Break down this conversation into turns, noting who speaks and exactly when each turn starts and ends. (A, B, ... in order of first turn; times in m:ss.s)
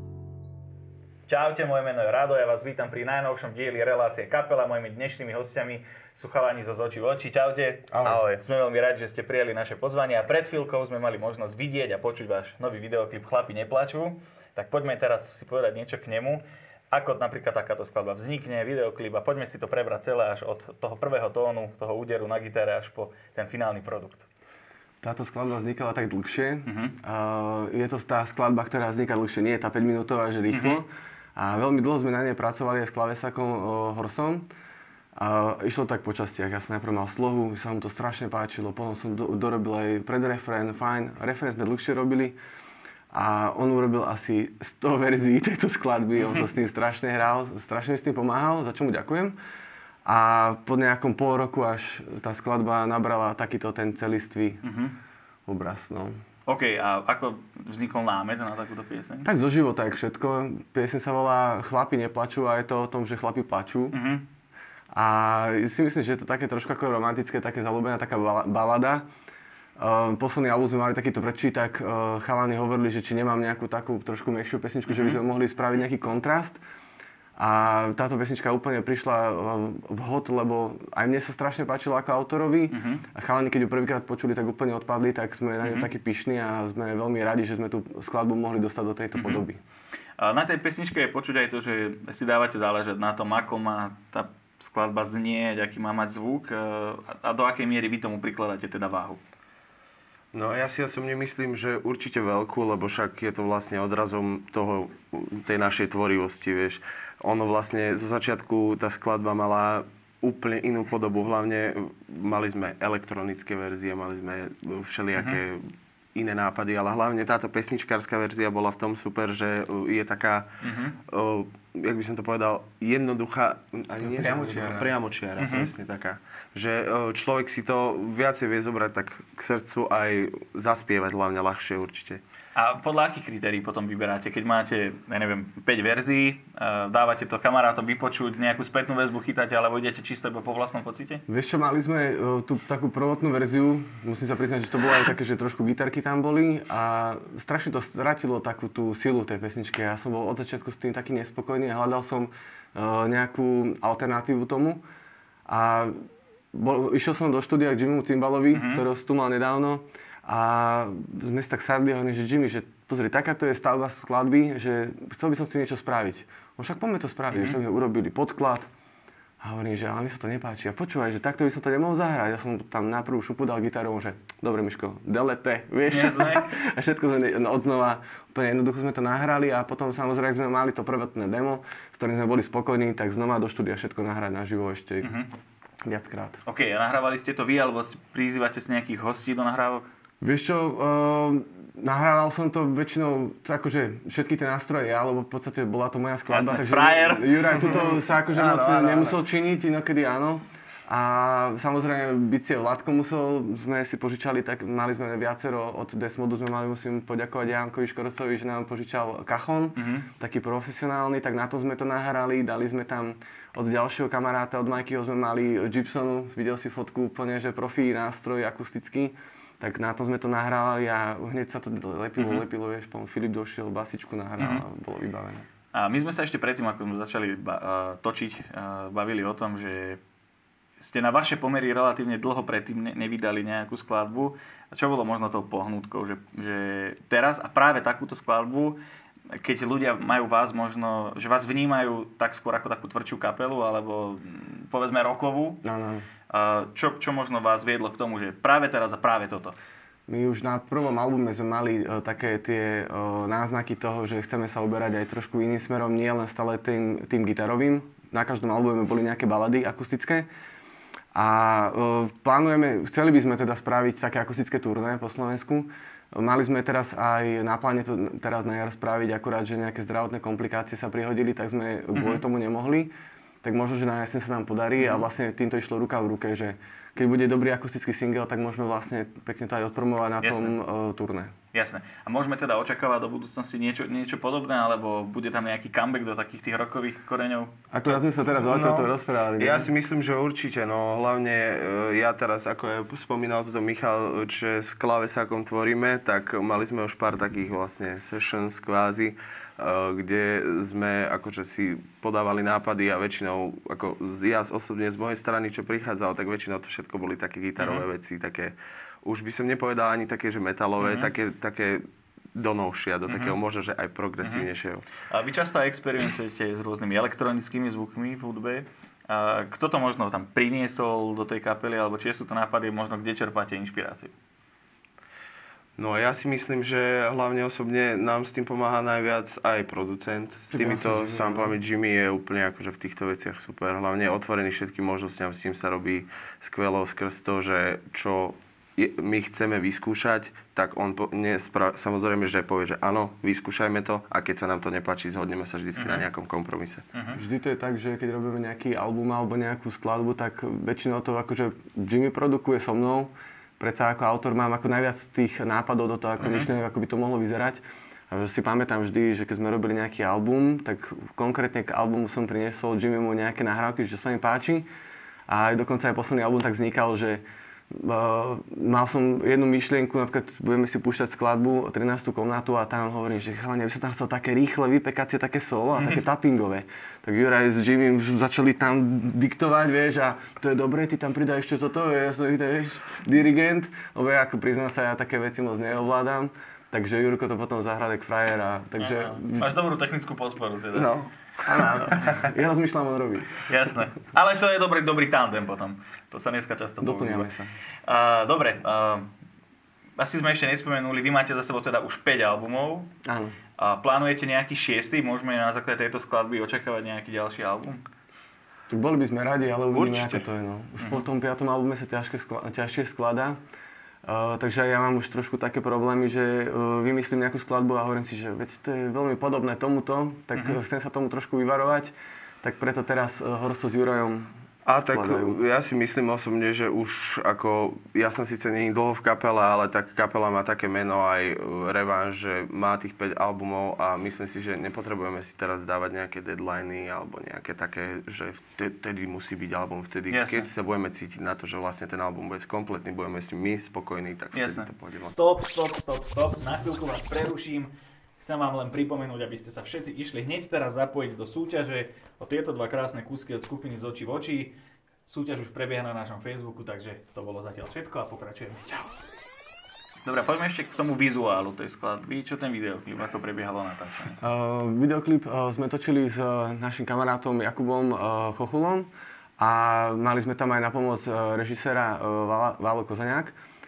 0:01.3-0:24.3 A
0:08.0-0:08.4 B
0:25.0-0:34.5 C
0:26.7-0:26.9 A
0:30.5-0:30.8 A
0:35.2-0:42.4 C
0:43.1-0:49.4 C
0:50.1-0:54.6 C
0:54.6-0:55.0 A
0:55.5-0:56.2 C
0:56.5-0:59.3 A
0:59.2-1:04.0 C
1:03.9-1:04.2 A
1:04.9-1:09.0 C
1:09.8-1:16.6 C
1:14.9-1:15.2 A
1:17.4-1:29.6 C
1:22.7-1:23.0 A
1:25.6-1:25.9 A
1:29.2-1:29.4 A
1:30.2-1:39.2 A
1:40.3-2:00.5 B
2:00.6-2:01.0 A
2:01.1-2:12.2 B
2:04.0-2:04.9 C
2:05.4-2:05.7 A
2:12.5-2:21.2 A
2:21.3-2:34.8 C
2:35.5-2:48.7 C
2:38.5-2:38.8 A
2:49.4-3:05.1 C
2:55.9-2:56.5 A
3:05.0-3:05.3 A
3:05.8-3:06.4 C
3:06.5-3:09.9 A
3:10.2-3:45.5 C
3:16.3-3:18.0 A
3:17.6-3:19.2 B
3:29.8-3:30.1 A
3:42.2-3:42.4 A
3:44.4-3:44.6 A
3:45.7-3:50.0 A
3:50.8-3:58.8 A
3:59.3-4:05.6 A
4:05.6-4:06.1 C
4:06.3-4:09.5 A
4:10.1-4:20.2 C
4:21.1-4:32.9 C
4:32.0-4:32.2 A
4:33.4-4:41.3 C
4:34.8-4:35.0 A
4:40.2-4:40.5 A
4:41.5-4:48.0 A
4:47.7-4:49.7 C
4:48.5-5:11.8 B
5:07.6-5:07.8 A
5:10.8-5:11.1 A
5:12.4-5:14.9 B
5:13.1-5:13.4 A
5:14.2-5:14.5 A
5:15.1-5:24.1 A
5:25.8-5:46.8 B
5:30.5-5:31.5 C
5:45.8-5:46.0 A
5:46.9-5:47.2 A
5:47.1-6:04.7 C
5:56.2-5:56.5 A
6:05.3-6:29.6 C
6:15.8-6:16.0 A
6:28.8-6:30.9 A
6:30.7-6:32.1 B
6:31.4-6:33.4 C
6:32.0-6:32.2 A
6:33.5-6:37.3 A
6:36.8-6:37.5 C
6:37.9-6:39.1 A
6:40.0-6:42.9 A
6:43.0-6:43.4 C
6:43.6-6:47.8 A
6:48.7-6:53.4 C
6:49.7-6:50.2 B
6:50.8-6:51.0 A
6:54.0-7:05.4 C
7:04.6-7:25.1 B
7:20.1-7:20.5 A
7:24.4-7:34.5 A
7:35.1-7:38.9 A
7:40.0-7:44.2 A
7:44.2-7:53.4 C